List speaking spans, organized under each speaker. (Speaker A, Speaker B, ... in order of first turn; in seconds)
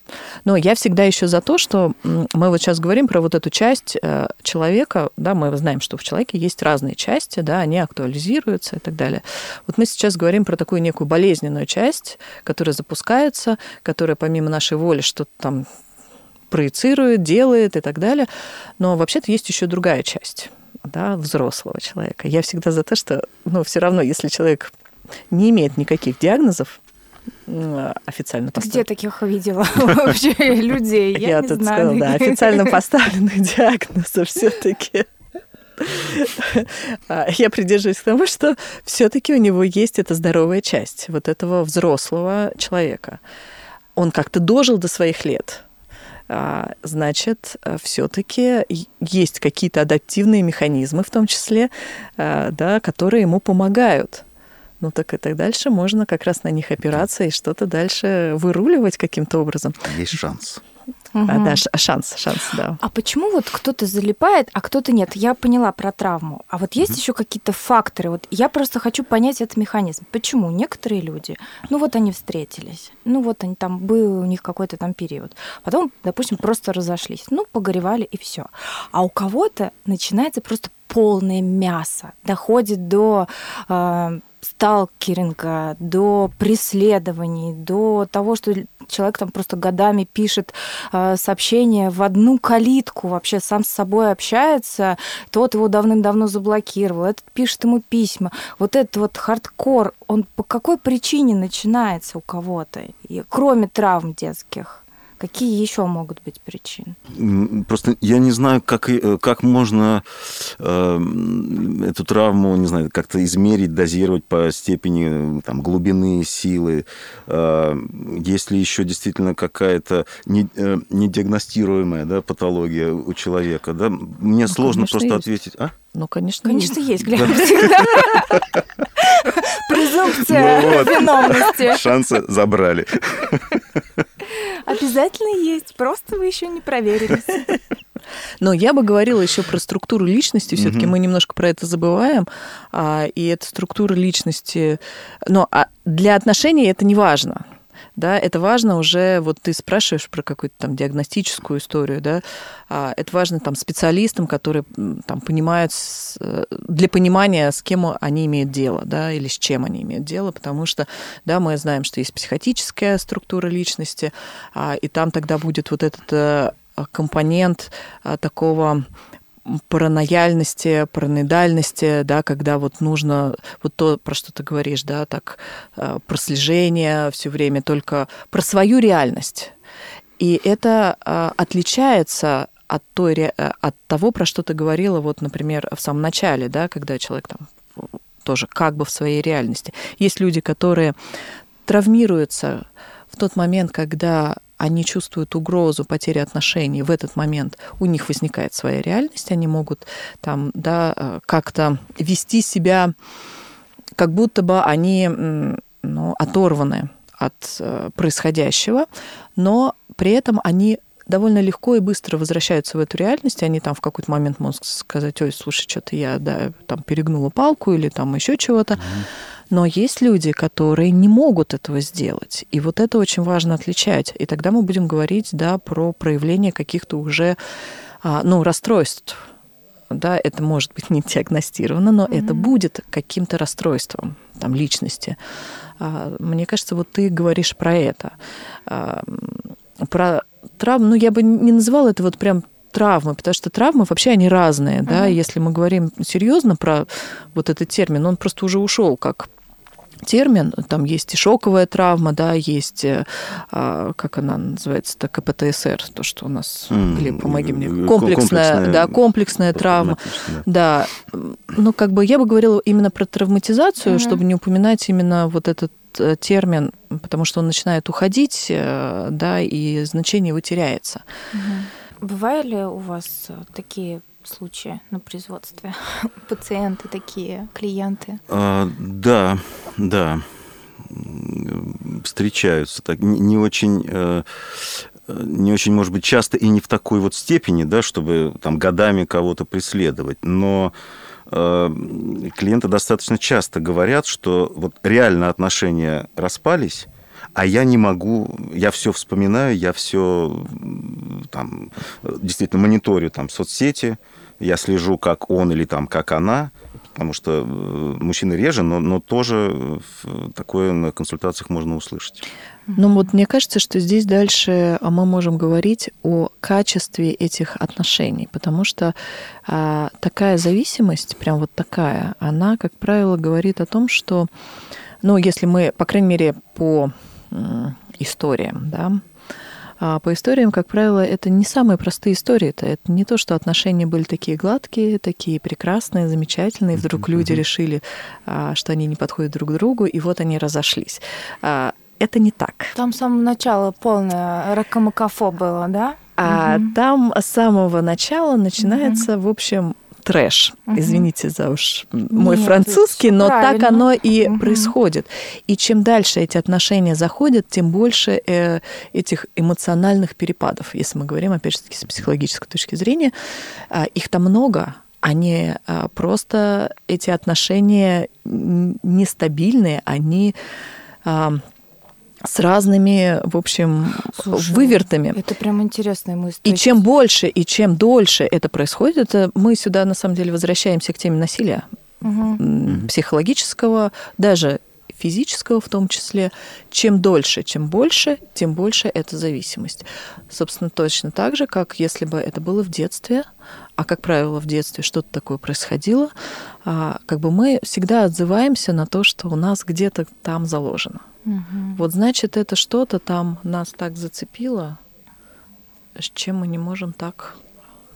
Speaker A: 0.4-15.7, 16.5-24.7, 25.3-26.8, 27.4-28.9, 31.2-35.1, 35.8-43.2, 44.0-45.6, 46.3-54.2, 54.8-59.9, 61.3-62.8, 124.5-125.2, 125.9-127.4, 138.4-147.4, 147.9-168.8, 169.4-179.5, 180.2-190.9, 191.7-202.9, 204.0-218.9, 219.5-227.4, 228.0-229.2, 229.9-235.2, 235.8-249.3, 250.0-271.0, 312.8-324.3, 325.0-329.0, 329.8-342.7, 346.2-363.1, 363.7-370.3, 371.0-371.4, 372.2-375.2, 376.4-381.7, 382.4-396.1, 396.6-401.0, 401.8-404.8, 405.9-407.4
Speaker B: 28.6-32.8, 61.1-61.6, 62.8-107.0, 126.4-128.4, 129.0-131.8, 134.4-137.5, 232.1-232.5, 244.9-245.2, 263.8-264.2, 271.3-278.2, 342.7-346.7, 348.6-349.1, 350.7-351.1, 352.1-354.7, 374.1-376.8, 382.0-382.4, 401.2-401.8
Speaker C: 59.8-60.6, 107.1-125.7, 127.2-127.5, 130.2-133.6, 140.6-140.9, 218.8-219.1, 256.7-259.0, 259.5-260.4, 278.3-280.2, 280.9-290.7, 291.3-312.2